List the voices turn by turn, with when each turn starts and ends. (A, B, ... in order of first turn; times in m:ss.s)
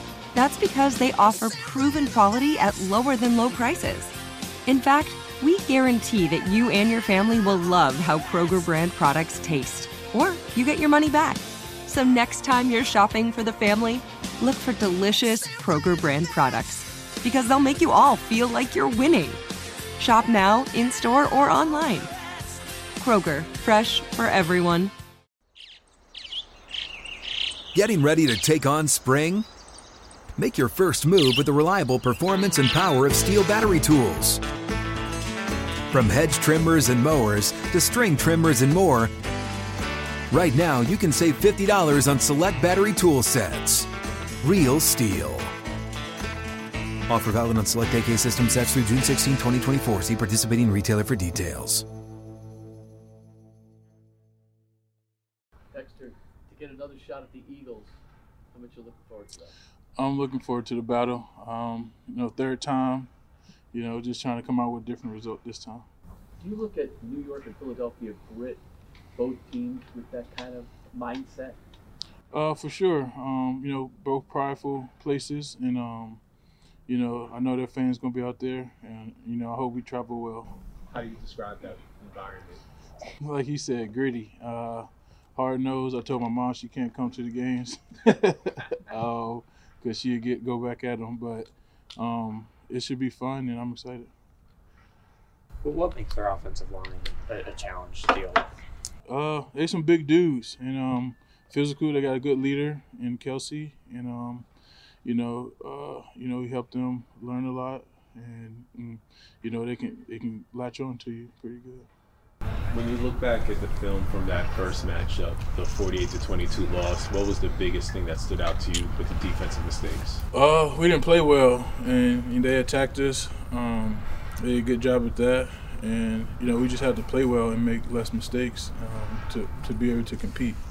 0:00.3-0:04.1 A
0:04.6-0:19.4 A
0:20.0-0:22.1 A
0:23.0-0:24.9 A
0:27.7-0:29.5 B
0:30.4-0:34.4 B
0:35.9-0:39.1 B
0:40.3-0:43.9 B
0:44.4-0:45.5 B
0:47.1-0:51.8 B
0:55.7-0:58.0 C
0:58.5-0:59.5 C
1:00.0-1:03.1 D
1:03.7-1:05.8 D
1:06.4-1:08.6 C
1:09.2-1:11.6 C
1:12.3-1:16.2 D
1:16.9-1:20.5 D
1:20.9-1:22.6 E
1:23.2-1:34.1 D
1:35.6-1:38.4 F
1:39.1-1:44.4 D
1:45.0-1:51.9 D
1:52.7-2:00.2 E
2:00.3-2:10.6 D